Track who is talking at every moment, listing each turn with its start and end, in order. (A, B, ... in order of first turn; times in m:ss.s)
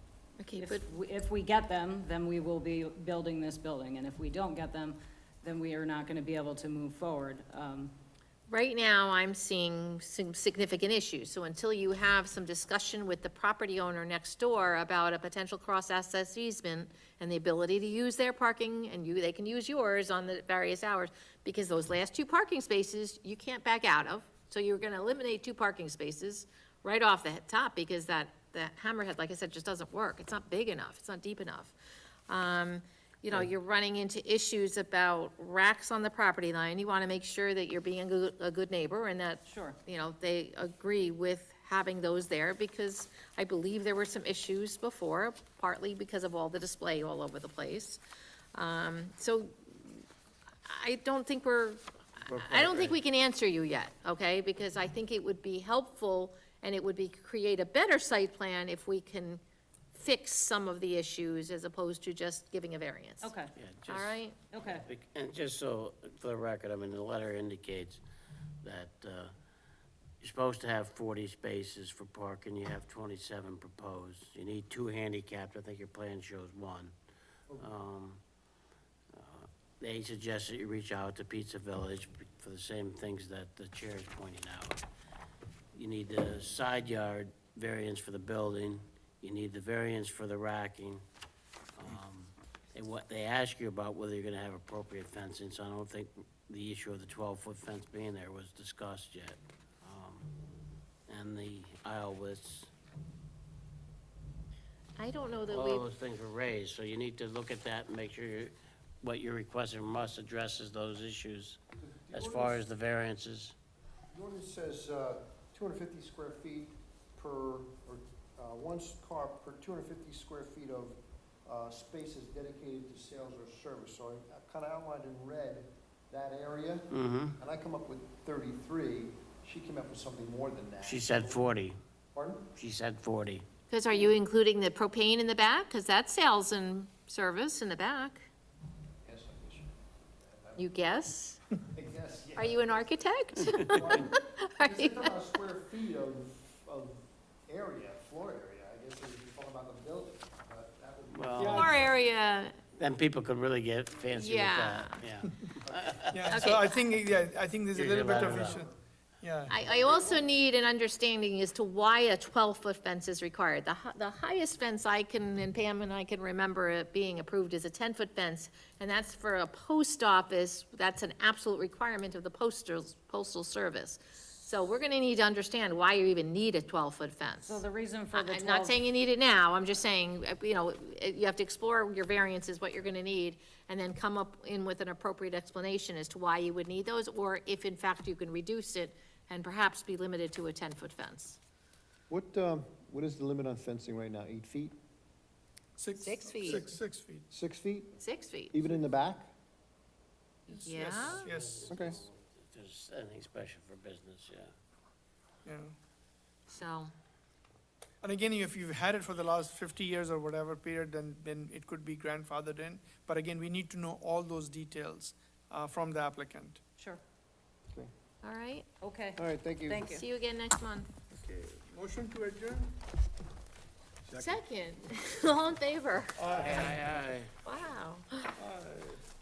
0:00.4-0:00.8 A
0:00.6-0:07.9 B
0:08.5-0:31.8 A
0:32.3-0:48.0 A
0:39.4-0:39.8 B
0:48.5-0:50.0 A
0:50.6-0:59.4 A
0:52.2-0:53.0 C
0:59.9-1:03.3 A
1:03.2-1:03.5 B
1:03.5-1:08.0 C
1:03.9-1:04.4 A
1:04.5-1:04.9 B
1:08.6-1:09.3 C
1:10.2-1:16.9 C
1:17.6-1:18.2 C
1:19.1-1:24.8 C
1:25.7-1:31.0 C
1:31.8-1:40.3 C
1:41.1-1:42.7 C
1:45.0-1:45.9 A
1:45.5-1:51.6 C
1:51.8-1:52.6 D
1:52.1-1:53.6 C
1:54.1-2:11.4 D
2:06.9-2:07.4 C
2:10.8-2:11.8 C
2:12.1-2:12.5 D
2:12.5-2:13.4 C
2:13.7-2:18.2 A
2:19.0-2:20.7 D
2:20.6-2:21.4 A
2:21.7-2:22.8 D
2:22.4-2:25.1 A
2:23.5-2:23.8 C
2:23.5-2:31.9 D
2:31.1-2:31.7 C
2:31.4-2:31.8 E
2:31.5-2:32.6 A
2:32.8-2:36.5 C
2:34.1-2:35.0 A
2:35.6-2:36.0 D
2:36.1-2:39.5 E
2:36.3-2:36.9 A
2:37.7-2:38.6 C
2:37.9-2:38.7 D
2:39.5-2:57.6 A
2:39.5-2:40.3 D
2:57.4-2:58.8 B
2:58.1-3:11.4 A
3:12.1-3:14.8 D
3:15.8-3:17.2 E
3:16.0-3:16.7 A
3:17.3-3:17.9 D
3:18.0-3:18.6 A
3:18.5-3:19.3 D
3:20.5-3:21.2 A
3:20.5-3:21.7 E
3:20.9-3:24.5 C
3:21.7-3:22.0 D
3:25.4-3:25.8 E
3:26.5-3:26.9 A
3:28.0-3:36.6 E
3:38.2-3:38.7 A
3:38.8-3:40.0 B
3:39.2-3:39.9 D
3:39.9-3:40.9 A
3:41.1-3:42.7 E
3:44.1-3:46.2 A
3:46.2-3:46.9 E
3:46.3-3:47.3 C
3:47.4-3:48.3 A
3:48.4-3:49.0 E